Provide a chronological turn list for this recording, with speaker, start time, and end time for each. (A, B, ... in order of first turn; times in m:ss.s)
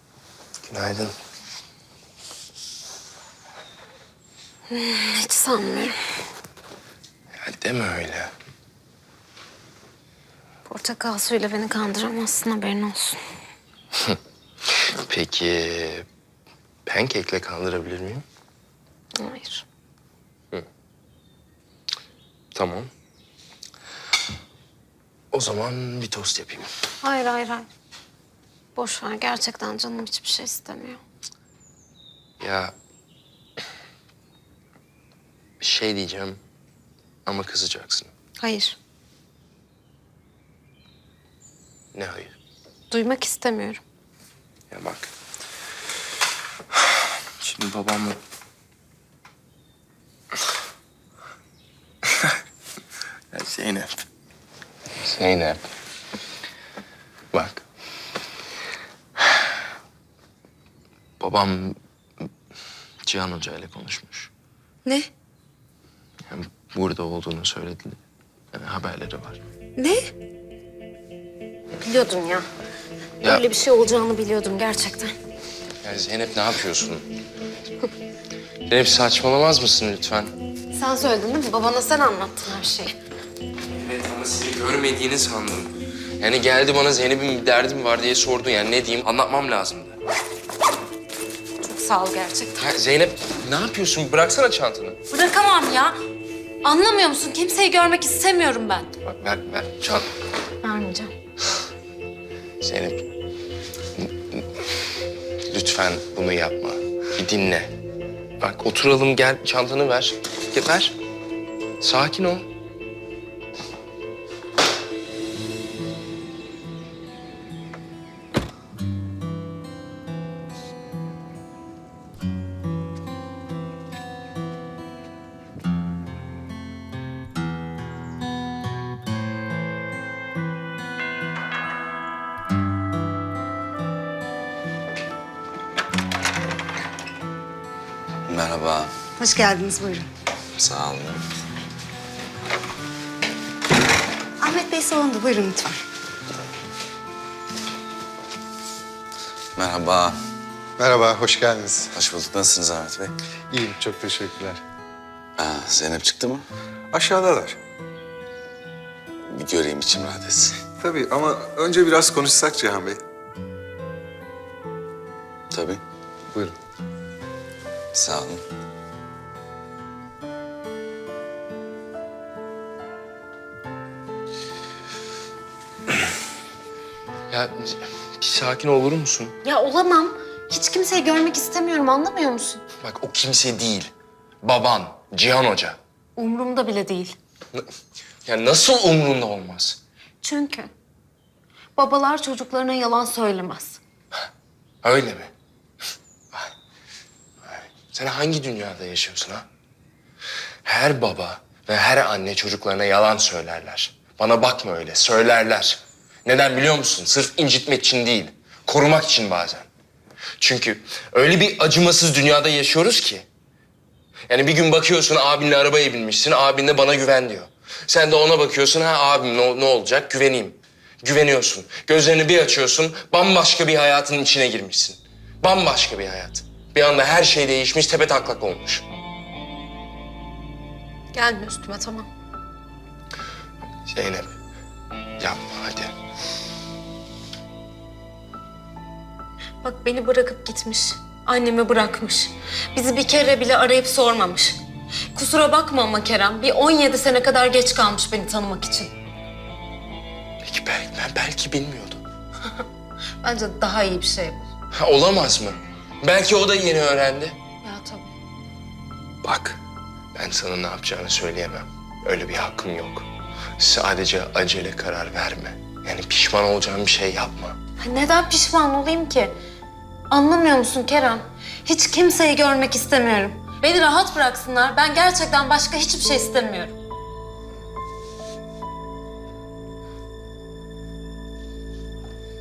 0:00.6-0:01.1 A
0:04.7-0:06.0 B
0:07.4-0:08.3 A
0:10.7-0:13.2 B
0:14.9-0:16.1 A
0:16.9-0:18.2 A
0:19.2-0:19.6 B
0:22.5-0:22.9 A
0:25.3-0:26.7 A
0:27.0-0:27.7 B
0:28.8-0:31.0 B
0:32.4-0:32.7 A
0:35.6-0:36.4 A
0:37.3-0:38.1 A
0:38.4-0:38.8 B
0:41.9-0:42.3 A
0:42.9-0:43.8 B
0:44.7-0:45.1 A
0:47.4-0:48.2 A
0:53.3-0:54.0 A
0:55.0-0:55.7 A
0:57.3-0:57.6 A
1:01.2-1:01.8 A
1:03.1-1:04.3 A
1:06.3-1:08.0 A
1:08.5-1:09.4 A
1:11.8-1:12.4 B
1:13.2-1:15.1 B
1:15.8-1:17.1 A
1:18.7-1:20.3 A
1:20.7-1:23.0 B
1:23.8-1:30.0 A
1:31.6-1:32.7 B
1:32.6-1:35.0 A
1:35.1-1:36.0 B
1:36.6-1:38.9 B
1:39.0-1:40.1 A
1:40.6-1:41.1 B
1:42.6-1:43.0 A
1:44.0-1:44.4 A
1:45.5-1:47.7 A
1:48.4-1:51.0 A
1:51.8-1:52.5 A
2:18.3-2:18.9 C
2:19.2-2:20.1 D
2:20.6-2:21.2 C
2:24.4-2:25.8 D
2:29.6-2:30.2 C
2:30.8-2:31.9 E
2:31.9-2:33.1 C
2:33.5-2:34.6 E
2:35.4-2:36.5 C
2:36.9-2:37.6 E
2:39.3-2:40.6 C
2:40.8-2:43.0 E
2:45.5-2:45.8 C
2:47.9-2:48.4 C
2:57.3-2:59.4 A
2:59.4-3:02.6 B
3:02.8-3:03.9 A
3:04.4-3:05.8 A
3:06.2-3:07.2 B
3:08.2-3:09.8 A
3:10.2-3:10.7 B
3:11.8-3:13.8 B
3:14.8-3:15.3 A
3:17.4-3:19.5 A
3:20.6-3:29.7 A
3:30.4-3:33.2 A
3:34.3-3:48.8 A
3:51.1-3:52.1 B
3:53.9-3:54.3 A
3:55.2-3:55.9 A
3:59.6-4:04.6 B
4:05.1-4:08.9 B
4:10.4-4:12.0 A
4:13.2-4:14.5 B
4:14.7-4:17.4 A
4:17.6-4:18.1 B
4:19.2-4:19.6 A
4:20.1-4:23.0 A
4:23.6-4:27.6 A
4:27.8-4:29.3 B
4:30.1-4:36.8 B